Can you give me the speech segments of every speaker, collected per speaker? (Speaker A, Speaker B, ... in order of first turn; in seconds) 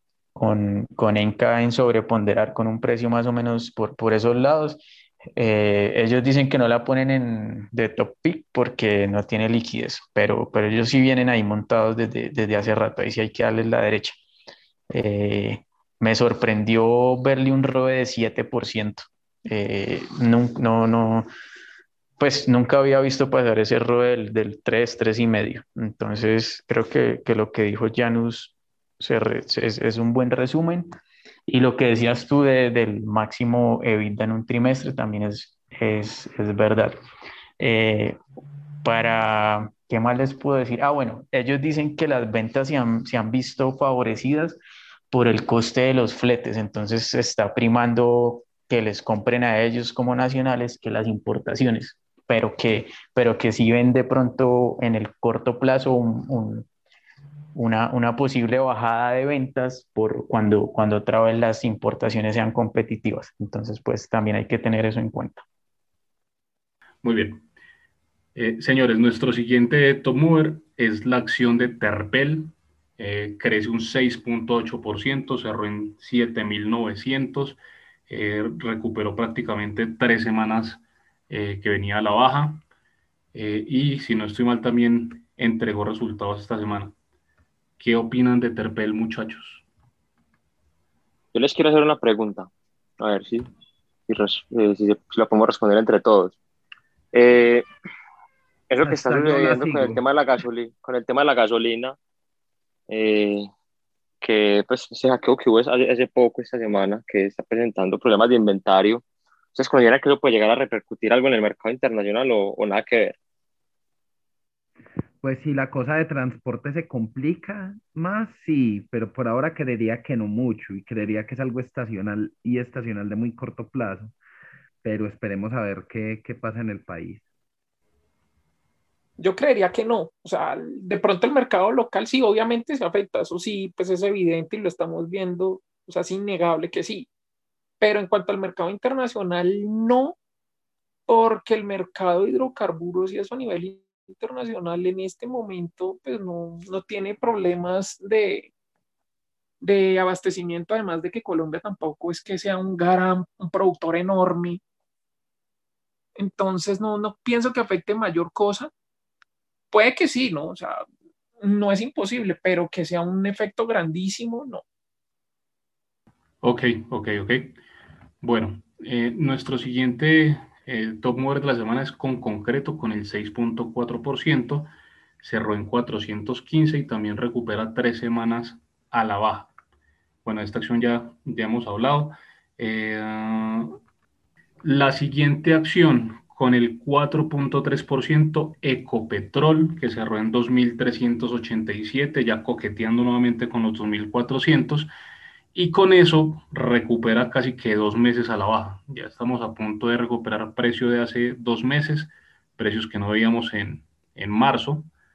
Speaker A: 0.3-4.8, 5.3-14.2, 14.9-21.3, 22.2-30.9, 31.5-37.0, 37.6-38.2, 38.8-44.6, 45.1-56.7, 57.5-65.4
Speaker B: 67.0-67.4, 68.3-82.6, 83.3-86.9, 87.8-89.6, 166.4-167.6, 168.2-179.5, 180.2-183.7, 184.6-194.9, 195.5-204.9
Speaker C: 91.3-93.5, 94.1-96.4, 97.1-97.7, 98.7-102.0, 102.9-103.5, 104.2-109.0, 109.5-113.2
Speaker D: 98.8-100.0, 115.2-124.1, 124.8-127.2
Speaker E: 129.2-137.1, 137.8-140.2, 141.1-148.5, 149.6-154.6, 156.2-158.7, 159.7-160.8, 161.4-164.6